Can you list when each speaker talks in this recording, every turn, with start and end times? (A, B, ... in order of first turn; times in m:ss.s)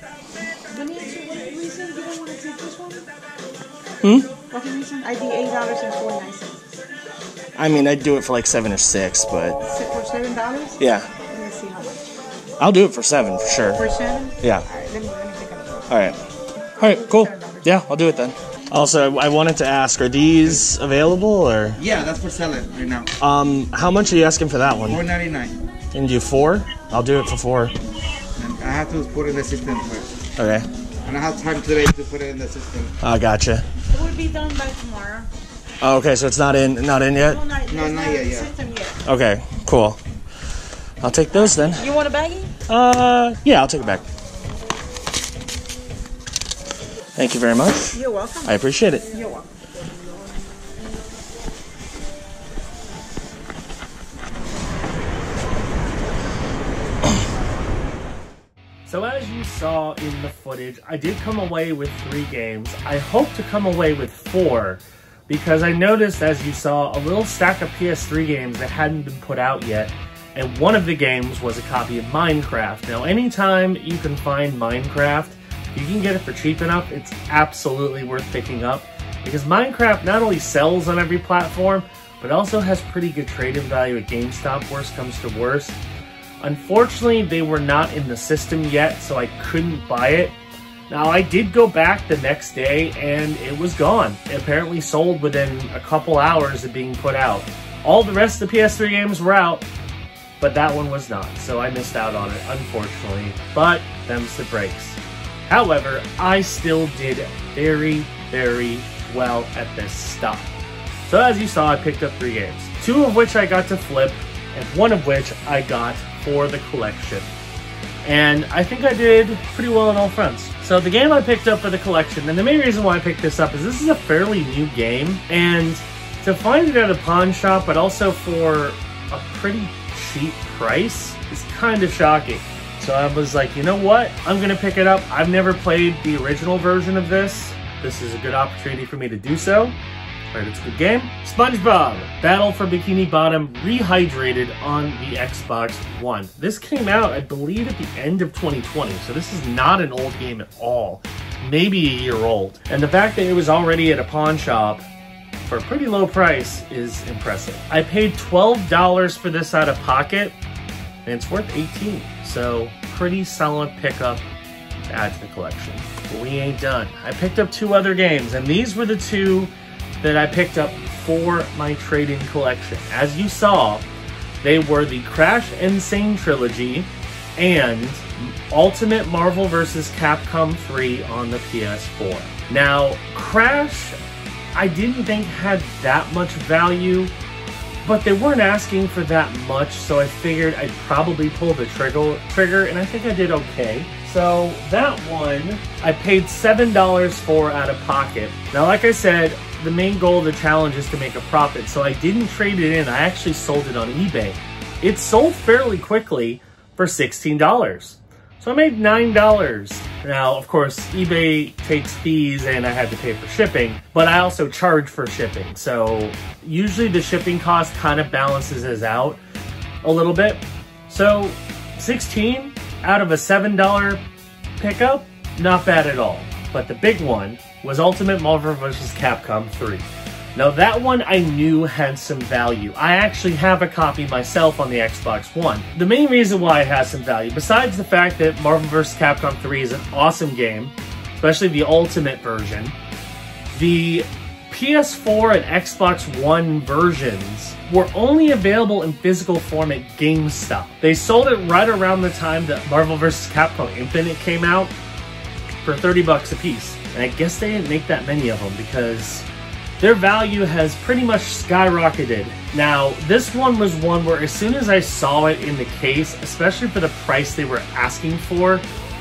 0:00.7-0:03.0 A
0:04.0-0:04.3 B
0:04.5-0:06.6 A
0:07.6-0:09.7 B
0:09.7-0:12.1 A
0:10.8-0:11.1 B
0:12.6-0:13.8 B
0:13.7-0:15.9 A
0:14.4-0:14.6 B
0:15.9-0:16.2 B
0:16.8-0:21.8 B
0:16.8-0:17.7 A
0:21.8-0:23.1 C
0:23.2-0:25.0 B
0:24.8-0:25.5 C
0:25.9-0:27.7 B
0:28.4-0:30.1 C
0:30.4-0:30.7 B
0:31.0-0:33.0 C
0:33.0-0:33.6 B
0:33.9-0:35.3 A
0:35.8-0:37.4 B
0:37.2-0:39.0 A
0:37.7-0:38.5 C
0:39.0-0:40.0 B
0:41.0-0:41.9 B
0:41.7-0:42.5 A
0:42.7-0:44.0 B
0:47.2-0:49.1 B
0:47.9-0:48.6 A
0:49.1-0:49.5 A
0:58.8-1:25.8 D
1:26.4-1:30.4 D
1:30.9-1:39.7 D
1:40.4-1:50.5 D
1:51.1-1:57.3 D
1:58.0-2:19.8 D
2:20.3-2:34.8 D
2:35.4-2:40.4 D
2:41.0-2:44.2 D
2:44.9-2:53.9 D
2:54.4-3:04.0 D
3:04.5-3:07.1 D
3:07.8-3:39.2 D
3:39.8-3:44.0 D
3:44.6-4:02.7 D
4:03.5-4:14.7 D
4:15.6-4:19.3 D
4:19.8-4:28.6 D